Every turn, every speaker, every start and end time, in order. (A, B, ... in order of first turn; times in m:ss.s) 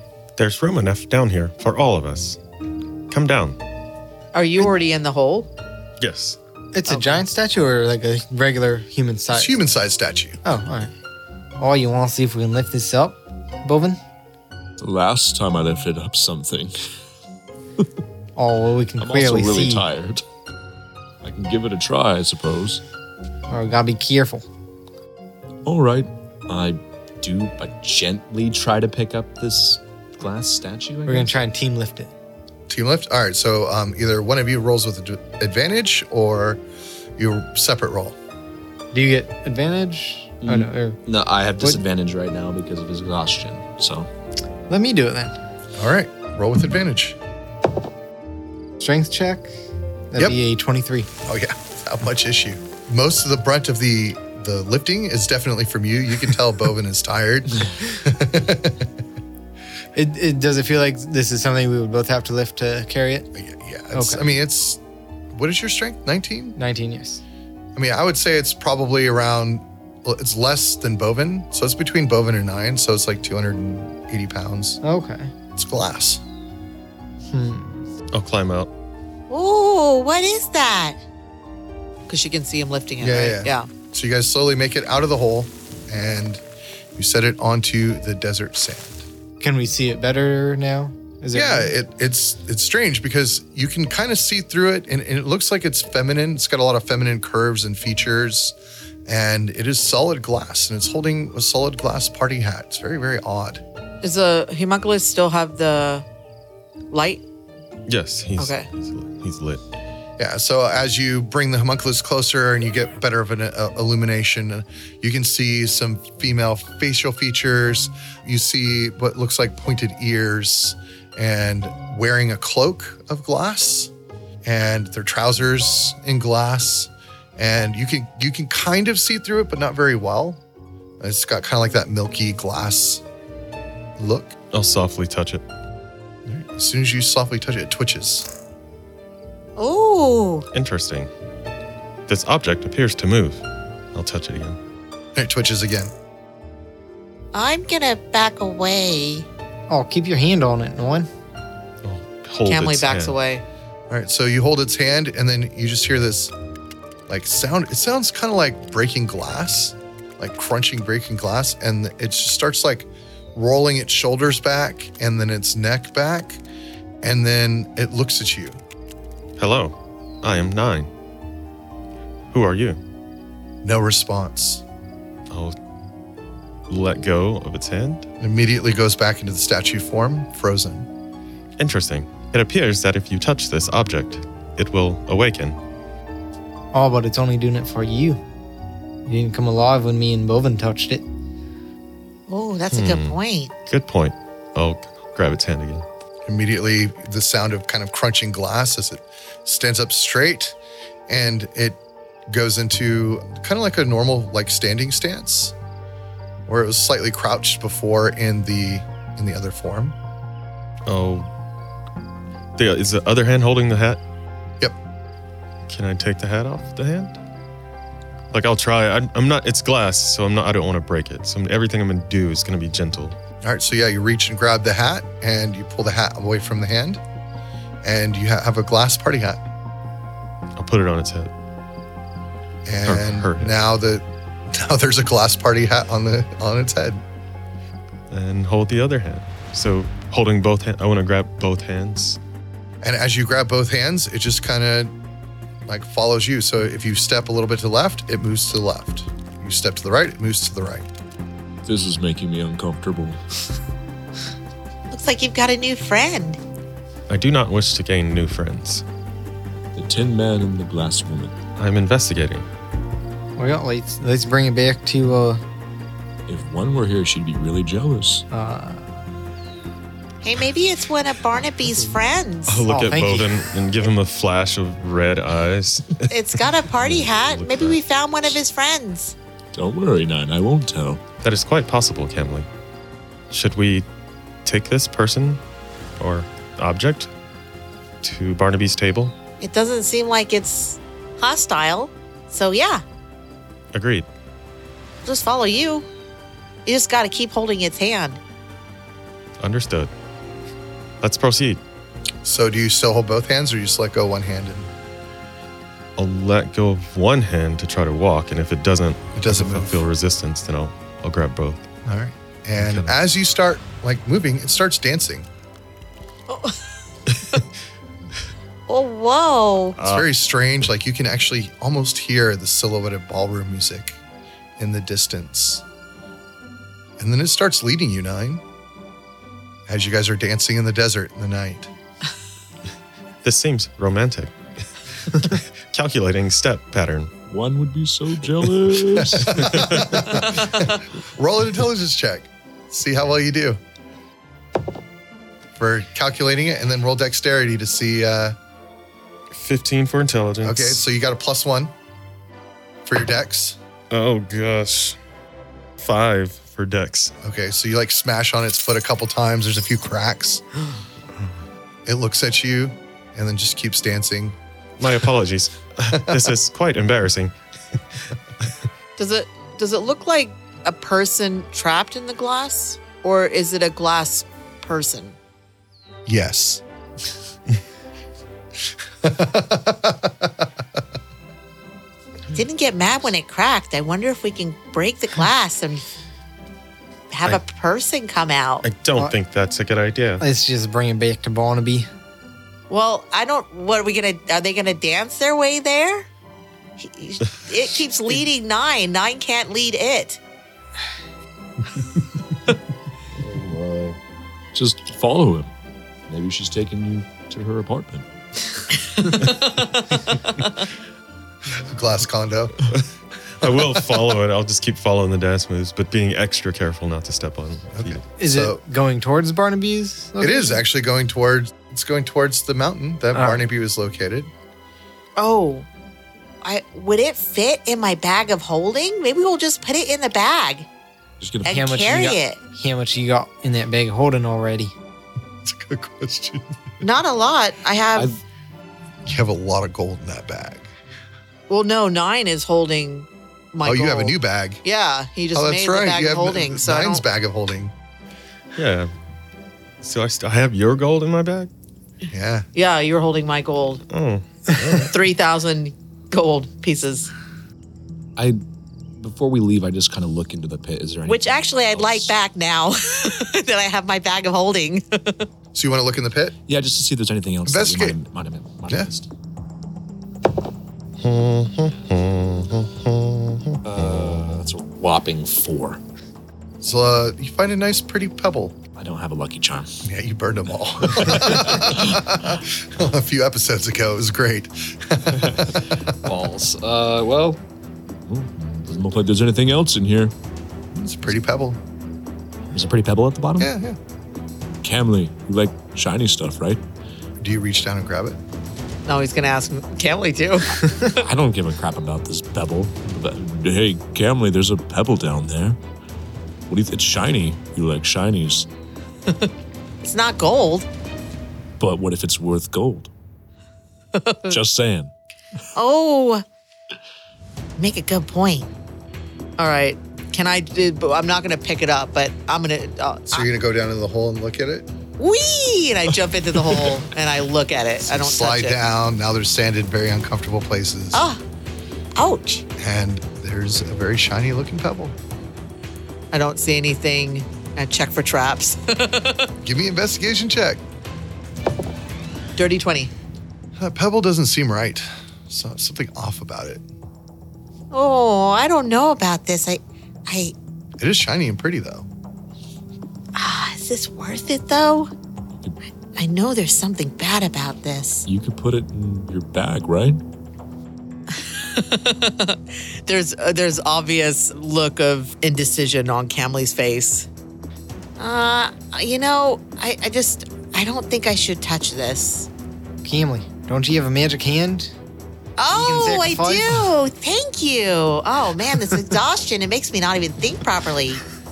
0:00.4-0:02.4 A
0:03.1-0:03.6 A
0:04.3-0:05.5 B
0:06.0-0:06.4 A
0:06.7-0:09.6 C
0:06.9-0:07.2 B
0:09.3-0:10.4 D
0:10.4-0:10.9 C
0:11.6-0:14.0 C
0:14.8-0:16.7 E
0:18.4-0:19.8 C
0:19.0-0:20.2 E
0:21.2-0:22.8 E
0:23.5-0:24.5 C
0:25.6-0:31.4 E
0:31.1-0:32.1 C
0:32.7-0:36.6 D
0:37.2-0:38.2 D
0:38.9-0:41.0 C
0:40.4-0:44.1 E
0:44.7-0:45.4 C
0:45.8-0:47.2 D
0:48.8-0:49.5 C
0:50.1-0:51.1 C
0:51.3-0:58.9 D
1:00.0-1:03.3 C
1:03.3-1:04.8 D
1:03.9-1:04.3 C
1:05.3-1:06.6 D
1:06.6-1:07.2 C
1:07.8-1:14.8 D
1:14.8-1:15.3 C
1:15.6-1:16.2 D
1:17.3-1:17.8 C
1:18.1-1:18.7 A
1:19.3-1:21.0 F
1:22.1-1:23.7 B
1:23.0-1:26.4 D
1:27.0-1:29.1 D
1:29.4-1:31.7 C
1:31.3-1:38.6 D
1:39.1-1:43.6 D
1:44.0-1:46.1 B
1:46.9-1:47.2 B
1:47.9-1:49.6 A
1:48.4-1:48.7 B
1:50.2-2:03.9 D
2:04.4-2:10.4 D
2:11.0-2:13.0 D
2:14.0-2:14.4 D
2:14.5-2:15.4 A
2:16.3-2:18.3 D
2:19.6-2:20.5 F
2:20.5-2:21.1 A
2:22.1-2:23.4 A
2:23.9-2:24.6 A
2:25.2-2:25.9 D
2:27.3-2:29.3 F
2:29.7-2:31.1 C
2:31.8-2:33.2 A
2:32.5-2:33.4 B
2:33.9-2:36.3 D
2:37.1-2:46.4 D
2:47.0-2:48.6 D
2:49.4-2:50.9 A
2:52.3-2:52.8 A
2:53.6-2:54.6 D
2:55.3-2:55.6 A
2:56.7-2:58.1 A
2:58.2-3:00.9 D
3:01.6-3:05.6 A
3:06.7-3:08.2 C
3:09.1-3:11.0 C
3:12.3-3:13.6 F
3:12.7-3:13.2 A
3:13.7-3:15.8 A
3:16.3-3:20.6 D
3:21.1-3:25.6 D
3:26.5-3:30.0 D
3:30.9-3:31.3 A
3:32.6-3:34.0 A
3:35.7-3:37.2 A
3:38.3-3:43.2 A
3:43.4-3:47.0 D
3:47.8-3:49.4 D
3:50.6-3:51.3 A
3:52.7-3:57.0 D
3:52.8-3:53.6 A
3:58.1-4:02.2 A
4:02.8-4:04.9 D
4:05.7-4:10.9 D
4:11.6-4:13.2 E
4:14.9-4:16.4 F
4:17.1-4:18.8 A
4:19.8-4:21.4 E
4:21.6-4:22.5 A
4:23.4-4:25.4 C
4:26.3-4:28.2 E
4:28.3-4:29.0 C
4:30.2-4:32.6 F
4:32.5-4:37.8 A
4:32.7-4:33.4 C
4:36.1-4:39.2 F
4:39.5-4:41.0 E
4:41.2-4:42.5 A
4:43.3-4:43.8 A
4:44.4-4:45.4 A
4:46.0-4:47.1 A
4:48.0-4:49.1 A
4:49.4-4:52.8 F
4:53.7-4:54.1 A
4:55.0-4:55.9 F
4:56.7-4:58.2 F
4:59.4-4:59.9 A
5:01.0-5:01.6 A
5:02.2-5:04.7 D
5:06.0-5:11.7 A
5:09.2-5:09.8 D
5:11.8-5:15.3 D
5:12.6-5:12.9 A
5:18.7-5:19.8 F
5:19.8-5:20.1 A
5:19.8-5:24.0 D
5:24.6-5:25.6 D
5:27.0-5:28.4 D
5:29.7-5:31.7 D
5:33.2-5:34.3 A
5:35.1-5:37.1 A
5:37.3-5:39.9 E
5:39.0-5:43.6 D
5:39.3-5:40.3 A
5:45.6-5:48.4 D
5:49.3-5:50.8 A
5:50.4-5:51.7 D
5:52.8-5:53.6 D
5:53.9-5:55.0 A
5:55.8-5:57.1 A
5:57.2-6:00.4 D
6:01.9-6:04.4 D
6:04.8-6:07.3 A
6:09.0-6:15.2 B
6:16.1-6:16.6 D
6:19.0-6:20.5 D
6:22.3-6:25.8 F
6:27.1-6:28.6 F
6:28.6-6:30.2 A
6:30.2-6:31.9 C
6:32.7-6:33.1 B
6:33.0-6:36.1 F
6:36.8-6:40.2 F
6:43.2-6:44.0 E
6:44.5-6:45.5 E
6:46.1-6:48.1 E
6:51.5-6:52.7 D
6:53.4-6:58.0 A
6:57.7-6:58.6 D
6:58.2-7:00.6 C
7:00.2-7:04.3 D
7:03.1-7:03.4 C
7:05.2-7:05.6 F
7:05.4-7:05.6 B
7:06.4-7:10.7 F
7:11.2-7:11.6 E
7:11.4-7:12.4 F
7:11.4-7:14.8 C
7:15.4-7:16.5 D
7:16.8-7:18.1 B
7:19.0-7:20.7 D
7:21.5-7:27.0 B
7:23.6-7:24.6 D
7:25.3-7:27.7 D
7:28.6-7:28.9 A
7:29.8-7:31.5 A
7:32.1-7:32.5 D
7:32.5-7:33.8 B
7:33.9-7:34.9 A
7:34.9-7:37.1 B
7:39.0-7:42.1 E
7:41.1-7:42.8 F
7:43.0-7:43.6 B
7:43.5-7:44.8 F
7:45.5-7:46.4 D
7:46.5-7:49.1 E
7:47.5-7:48.0 D
7:51.0-7:53.6 A
7:53.6-7:55.8 E
7:56.6-7:58.6 D
7:58.8-7:59.8 E
7:59.8-8:05.9 D
8:00.9-8:02.0 E
8:05.1-8:07.4 E
8:08.1-8:10.1 E
8:10.7-8:11.6 D
8:12.5-8:13.5 E
8:13.4-8:13.8 D
8:14.6-8:16.6 E
8:17.2-8:18.2 D
8:18.9-8:20.7 B
8:20.8-8:25.6 E
8:26.5-8:28.5 E
8:29.9-8:30.7 B
8:31.6-8:32.9 E
8:34.0-8:34.4 B
8:34.3-8:34.9 E
8:35.6-8:36.2 F
8:37.6-8:38.5 F
8:39.4-8:43.3 B
8:43.1-8:44.7 D
8:45.0-8:46.0 F
8:45.9-8:48.6 B
8:47.8-8:51.1 D
8:50.9-8:51.2 F
8:52.0-8:52.5 F
8:52.6-8:55.0 D
8:56.1-8:59.3 B
8:59.4-9:00.6 D
9:02.4-9:02.9 B
9:03.6-9:06.6 D
9:07.7-9:10.4 F
9:10.8-9:11.9 D
9:13.2-9:14.9 F
9:16.0-9:18.1 F
9:18.1-9:20.0 E
9:21.2-9:27.1 B
9:28.0-9:32.3 F
9:32.8-9:34.7 C
9:35.4-9:41.0 F
9:35.5-9:36.7 C